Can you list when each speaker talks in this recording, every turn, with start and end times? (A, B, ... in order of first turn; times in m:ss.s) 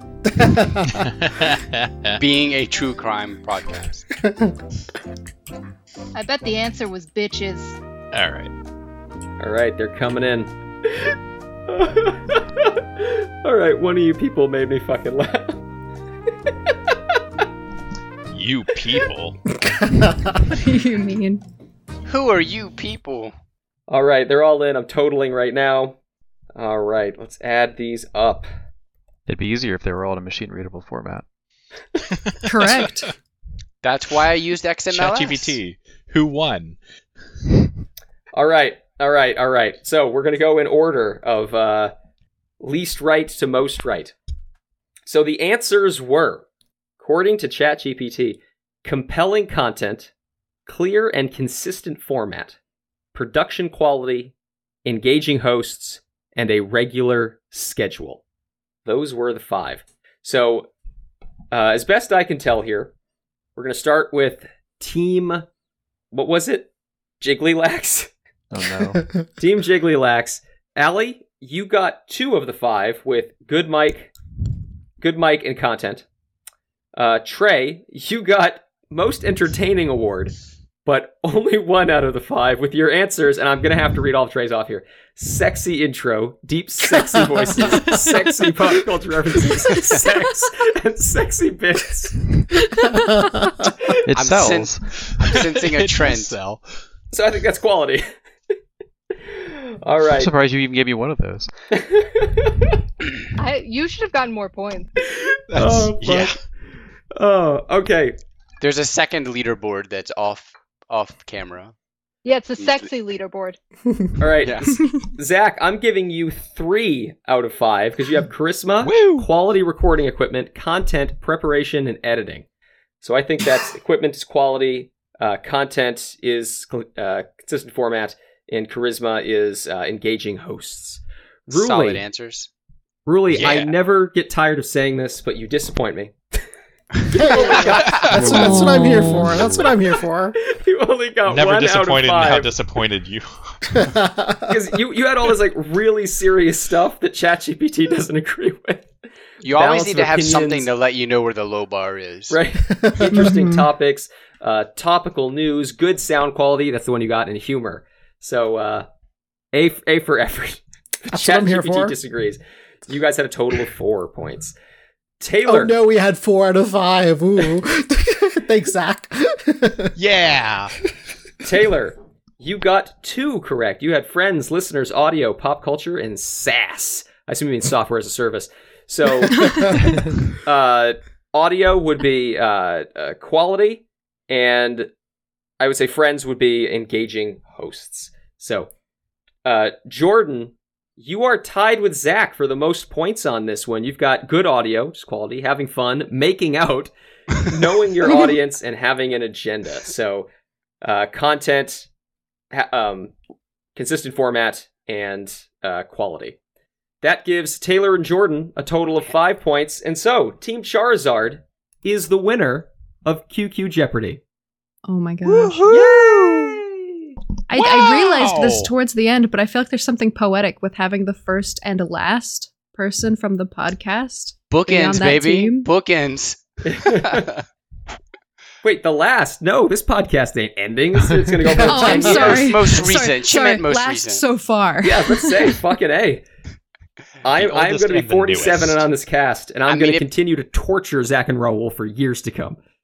0:00.2-0:01.1 A
0:01.0-0:02.2 B
0:02.2-0:04.0 C
0:04.2-0:04.5 A
0:06.1-0:07.8 D
0:08.1-0:08.5 B
0:09.4-0:11.1 E
0:11.7-0:15.6 E
0:18.3-0:19.4 B
0:19.6-0:20.4 A
0:20.5-0:21.4 F
0:22.0-0:23.3 C
0:23.9-0:26.0 E
0:26.5-0:28.5 E
0:29.3-0:31.2 G
0:32.4-0:33.1 F
0:32.6-0:33.0 B
0:33.8-0:35.6 C
0:34.9-0:36.8 B
0:38.3-0:41.9 E
0:42.6-0:44.1 E
0:45.0-0:46.4 E
0:47.0-0:50.1 E
0:50.7-0:52.6 E
0:53.1-0:54.3 E
0:54.8-0:58.2 E
0:58.8-1:00.7 E
1:01.5-1:02.9 E
1:03.6-1:05.4 E
1:06.1-1:06.7 E
1:07.2-1:08.1 E
1:08.5-1:09.0 G
1:09.4-1:14.1 E
1:15.0-1:16.0 E
1:16.9-1:20.3 E
1:20.8-1:32.3 E
1:26.9-1:27.6 A
1:32.8-1:33.1 F
1:32.9-1:33.6 A
1:34.0-1:34.9 G
1:34.1-1:36.6 C
1:35.1-1:36.6 B
1:37.1-1:38.1 E
1:39.2-1:40.3 E
1:40.1-1:41.5 G
1:41.7-1:42.8 E
1:43.4-1:44.9 D
1:45.0-1:46.3 E
1:45.5-1:46.4 B
1:47.1-1:48.2 E
1:48.6-1:51.7 C
1:52.2-1:53.6 D
1:52.6-1:52.9 C
1:54.2-2:02.4 E
1:54.4-1:54.8 C
1:58.8-1:59.3 B
2:03.0-2:12.0 E
2:11.5-2:12.5 C
2:13.0-2:16.1 E
2:13.3-2:13.7 B
2:17.1-2:20.4 A
2:17.2-2:18.6 E
2:17.6-2:18.6 B
2:19.2-2:19.5 B
2:20.4-2:22.5 E
2:21.2-2:23.8 B
2:23.8-2:24.4 A
2:24.5-2:28.9 E
2:29.4-2:32.4 C
2:29.4-2:30.7 E
2:32.3-2:38.9 E
2:32.8-2:33.6 A
2:39.5-2:44.5 E
2:41.1-2:42.0 A
2:45.2-2:45.7 E
2:45.4-2:49.9 A
2:50.0-2:50.7 B
2:51.4-3:04.9 E
3:05.6-3:08.7 E
3:09.4-3:20.3 E
3:20.8-3:21.9 E
3:22.5-3:23.1 E
3:23.7-3:26.4 E
3:27.0-3:34.2 E
3:34.8-3:35.7 F
3:35.2-3:36.6 B
3:35.6-3:37.0 E
3:37.5-3:45.7 F
3:37.6-3:38.7 B
3:44.5-3:47.4 C
3:46.6-3:47.3 E
3:48.6-3:52.5 E
3:51.4-3:52.4 A
3:51.6-3:55.5 F
3:51.9-3:54.2 C
3:54.8-3:56.2 E
3:57.2-4:02.6 E
3:57.3-3:58.9 B
3:59.7-4:00.1 C